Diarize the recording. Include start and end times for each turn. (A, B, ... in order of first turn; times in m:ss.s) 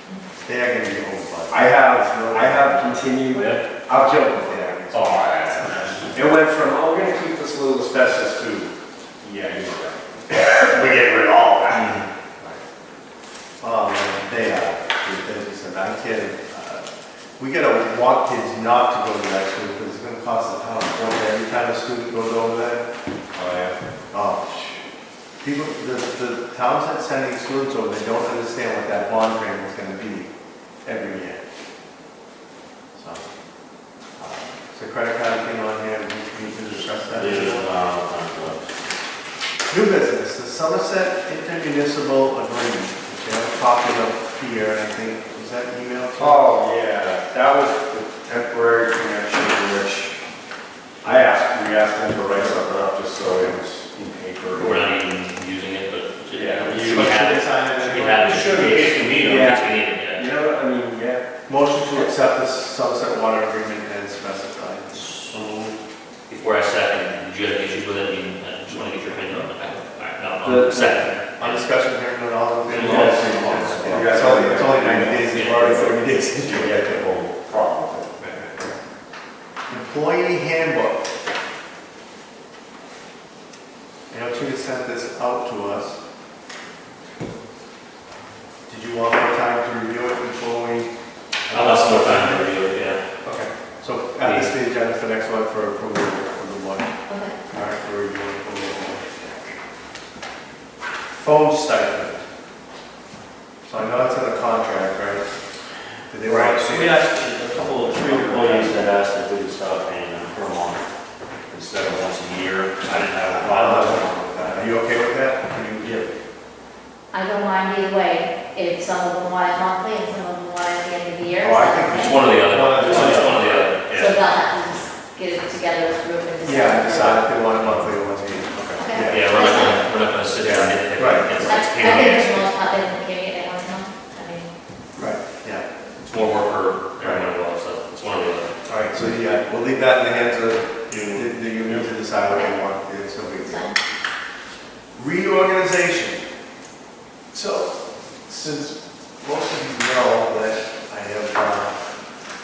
0:00.4-0:03.2 A
0:01.5-0:04.7 B
0:03.3-0:03.6 C
0:03.9-0:06.1 A
0:04.9-0:06.1 C
0:06.1-0:12.6 B
0:13.6-0:16.9 A
0:17.4-0:22.8 A
0:23.3-0:23.8 B
0:24.1-0:24.8 A
0:25.4-0:30.3 A
0:30.8-0:31.4 A
0:33.0-0:33.2 A
0:34.2-0:37.8 A
0:37.2-0:38.8 C
0:39.7-0:46.4 A
0:46.2-0:50.1 B
0:51.0-0:54.9 B
0:54.5-1:00.2 D
0:56.3-0:57.2 B
0:56.7-0:59.0 A
0:58.2-0:59.4 C
0:59.2-1:01.3 B
1:01.5-1:05.0 A
1:05.2-1:05.7 C
1:06.3-1:11.6 D
1:10.4-1:11.2 B
1:11.4-1:17.1 A
1:12.7-1:18.7 B
1:12.8-1:13.1 D
1:12.8-1:13.7 C
1:15.3-1:15.7 D
1:18.2-1:18.5 A
1:19.7-1:21.1 A
1:24.1-1:26.0 A
1:28.7-1:30.9 A
1:31.5-1:32.5 A
1:31.5-1:33.0 D
1:33.2-1:36.9 A
1:34.2-1:34.5 D
1:37.1-1:37.4 E
1:37.5-1:39.5 A
1:41.1-1:42.2 A
1:43.6-1:45.2 A
1:46.1-1:47.0 A
1:46.3-1:50.8 C
1:48.1-1:48.6 B
1:51.5-1:54.7 C
1:53.3-1:56.0 A
1:57.1-2:02.3 E
2:01.4-2:03.6 A
2:01.9-2:03.9 D
2:02.8-2:04.1 C
2:04.0-2:07.3 E
2:06.4-2:09.3 A
2:08.8-2:09.8 E
2:09.1-2:12.4 D
2:10.4-2:11.5 A
2:11.4-2:14.5 E
2:14.9-2:15.6 A
2:16.0-2:18.5 D
2:17.0-2:17.2 A
2:18.6-2:23.7 A
2:20.9-2:21.8 C
2:23.4-2:23.8 E
2:25.0-2:26.2 A
2:27.3-2:31.7 A